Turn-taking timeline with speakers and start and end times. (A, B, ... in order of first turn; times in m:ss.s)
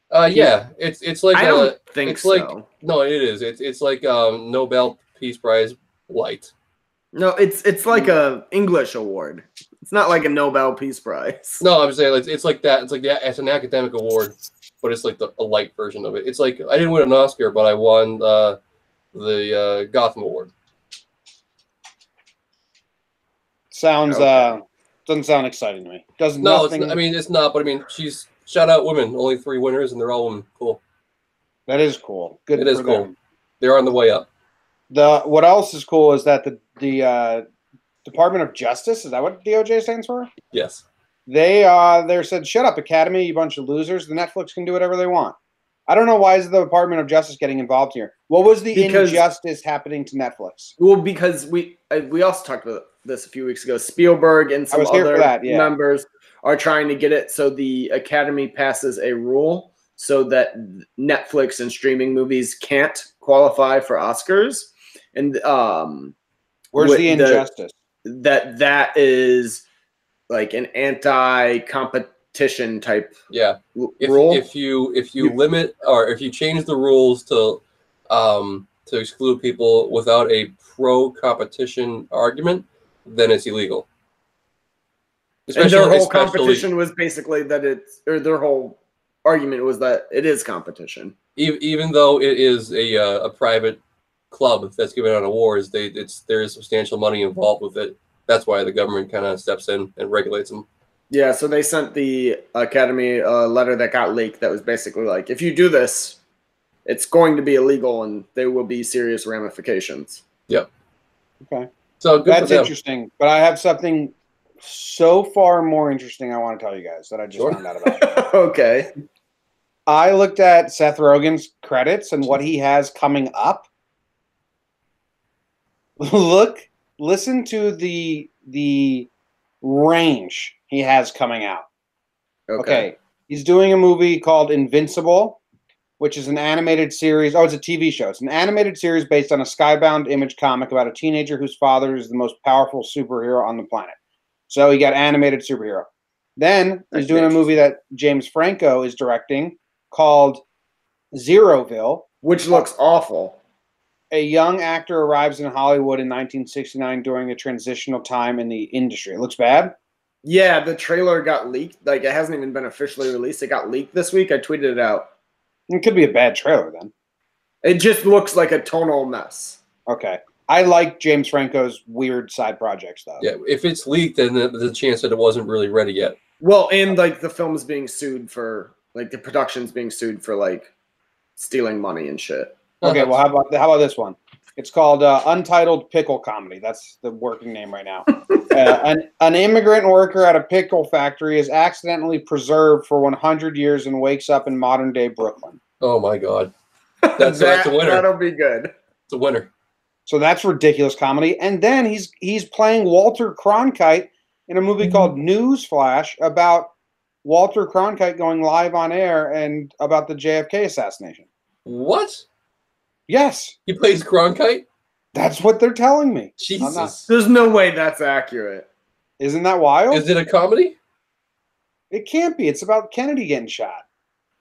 0:00.1-0:06.5 A
0:01.3-0:02.6 B
0:07.1-0:11.6 B
0:11.6-0:18.6 A
0:19.1-0:20.5 A
0:23.7-0:27.0 C
0:24.1-0:24.4 B
0:26.4-0:30.8 A
0:31.7-0:33.1 C
0:32.5-0:34.3 A
0:34.9-0:37.4 C
0:38.0-0:40.3 C
0:40.5-0:40.8 A
0:41.3-0:45.4 C
0:45.9-0:50.7 C
0:48.7-0:49.2 B
0:50.8-1:06.1 B
0:54.7-0:55.7 C
1:06.7-1:07.8 C
1:06.8-1:07.5 B
1:08.0-1:09.6 B
1:10.3-1:13.2 B
1:13.3-1:23.9 A
1:13.8-1:14.4 B
1:25.5-1:26.7 A
1:25.6-1:31.2 B
1:31.4-1:33.8 A
1:34.3-1:40.7 A
1:41.1-1:46.2 B
1:46.9-1:50.2 B
1:51.4-1:51.7 C
1:52.0-1:52.7 A
1:52.3-1:58.3 C
1:57.8-1:58.9 B
1:59.9-2:03.7 C
2:06.0-2:09.1 C
2:09.6-2:11.7 C
2:12.5-2:12.9 B
2:12.6-2:15.4 C
2:16.0-2:24.0 C
2:24.5-2:30.4 C
2:26.9-2:27.5 B
2:31.1-2:32.6 C
2:32.2-2:33.4 B
2:34.1-2:39.8 C
2:40.2-2:45.1 B
2:45.7-2:46.9 C
2:47.6-2:49.6 B
2:49.9-2:53.3 C
2:53.2-2:56.2 A
2:56.4-3:00.7 B
3:01.4-3:02.6 B
3:02.8-3:03.2 A
3:02.8-3:15.6 C
3:15.8-3:16.5 A
3:17.0-3:18.7 B
3:17.2-3:18.1 A
3:19.1-3:19.5 A
3:20.1-3:26.7 C
3:27.2-3:31.3 C
3:31.7-3:32.2 A
3:33.1-3:33.6 C
3:33.7-3:34.6 A
3:35.1-3:37.0 C
3:36.4-3:37.1 A
3:37.1-3:38.7 B
3:39.2-3:40.1 C
3:39.9-3:40.8 A
3:41.9-3:43.8 C